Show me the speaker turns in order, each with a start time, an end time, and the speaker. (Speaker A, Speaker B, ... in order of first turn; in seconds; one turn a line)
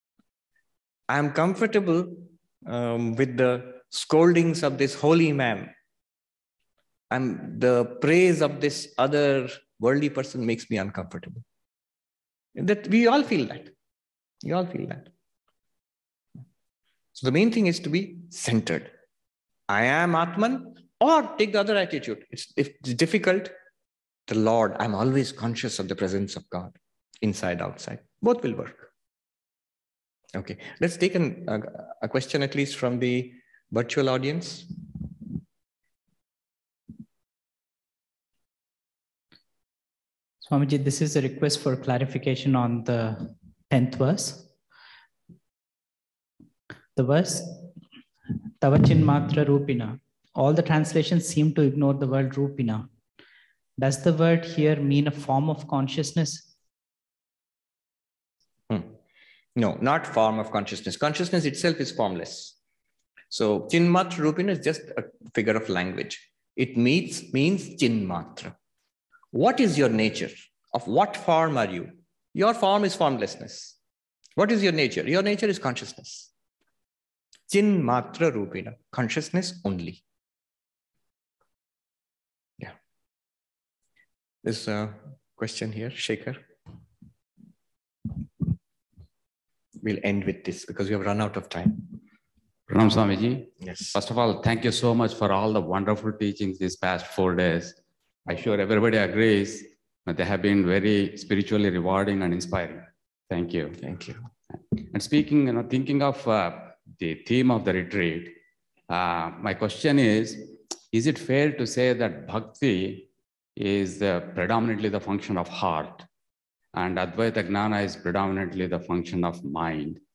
Speaker A: 1.1-5.7
Speaker A: 7.1-11.4
Speaker A: 12.6-13.7
Speaker A: 14.4-15.1
Speaker A: 17.1-18.9
Speaker A: 19.7-23.5
Speaker A: 24.3-28.9
Speaker A: 30.3-34.7
Speaker B: 40.4-44.5
Speaker B: 47.0-47.7
Speaker B: 48.6-52.9
Speaker B: 53.8-56.5
Speaker A: 58.7-59.0
Speaker A: 59.5-62.5
Speaker A: 63.3-68.5
Speaker A: 69.3-73.8
Speaker A: 74.4-76.3
Speaker A: 77.5-80.0
Speaker A: 84.4-86.4
Speaker A: 89.8-91.9
Speaker C: 92.7-103.8
Speaker A: 103.8-104.2
Speaker C: 104.8-108.3
Speaker C: 108.9-116.1
Speaker C: 116.7-120.0